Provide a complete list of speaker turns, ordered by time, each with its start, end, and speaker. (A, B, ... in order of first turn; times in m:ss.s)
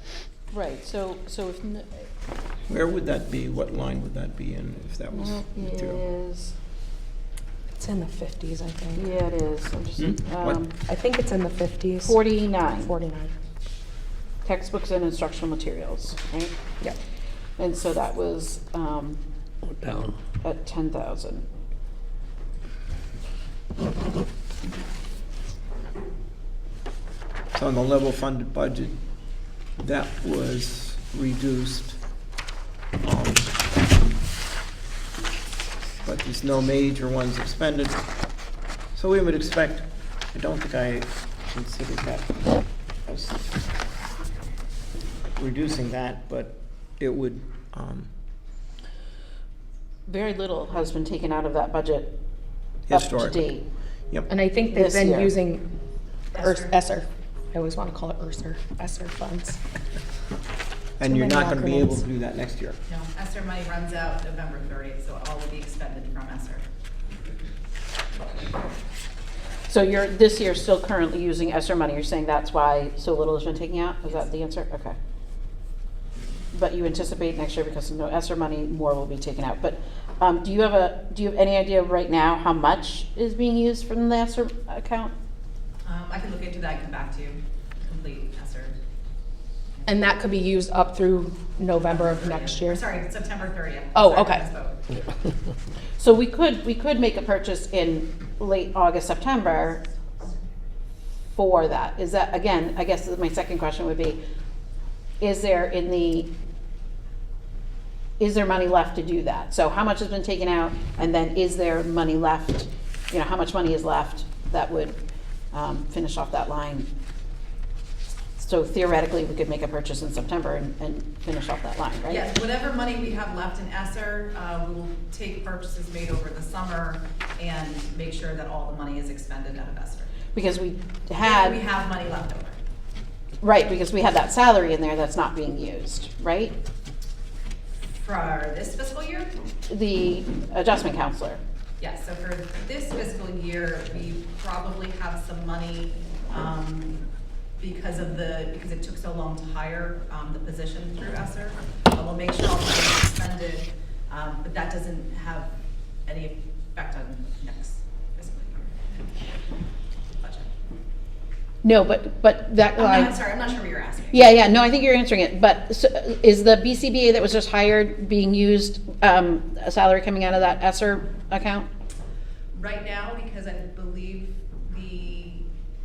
0:00.5-0:02.1 A
0:02.7-0:06.0 B
0:05.1-0:06.5 A
0:07.7-0:09.0 C
0:09.0-0:10.7 A
0:10.0-0:10.6 B
0:10.8-0:13.3 C
0:12.0-0:12.9 A
0:14.4-0:16.5 A
0:17.6-0:19.2 A
0:20.4-0:21.4 A
0:27.5-0:28.9 B
0:29.8-0:32.0 B
0:33.0-0:33.5 B
0:36.0-0:38.0 B
0:38.9-0:42.3 B
0:43.0-0:43.4 B
0:45.4-0:48.1 B
0:50.1-0:52.1 A
0:52.9-0:53.4 B
0:52.9-0:53.6 A
0:54.3-0:55.6 C
0:54.7-0:55.3 A
0:56.3-0:56.7 D
0:56.3-0:59.6 C
1:01.0-1:02.8 B
1:01.0-1:02.0 C
1:02.9-1:06.6 D
1:09.7-1:15.0 A
1:16.5-1:25.1 A
1:25.8-1:28.8 D
1:29.8-1:30.1 D
1:29.8-1:32.8 C
1:31.8-1:34.8 D
1:33.9-1:34.4 C
1:36.0-1:39.8 A
1:41.3-1:44.2 A
1:45.2-1:46.3 A
1:48.2-1:55.0 A
1:55.5-1:56.9 A
1:58.4-2:02.2 A
2:02.1-2:10.1 D
2:10.3-2:11.6 A
2:11.2-2:12.6 D
2:13.4-2:16.5 A
2:17.9-2:19.3 D
2:19.7-2:21.4 A
2:21.8-2:27.0 D
2:27.6-2:35.5 D
2:36.0-2:39.0 D
2:40.2-2:40.5 D
2:41.6-2:43.2 A
2:42.8-2:44.2 D
2:44.1-2:51.7 A
2:52.5-2:55.5 D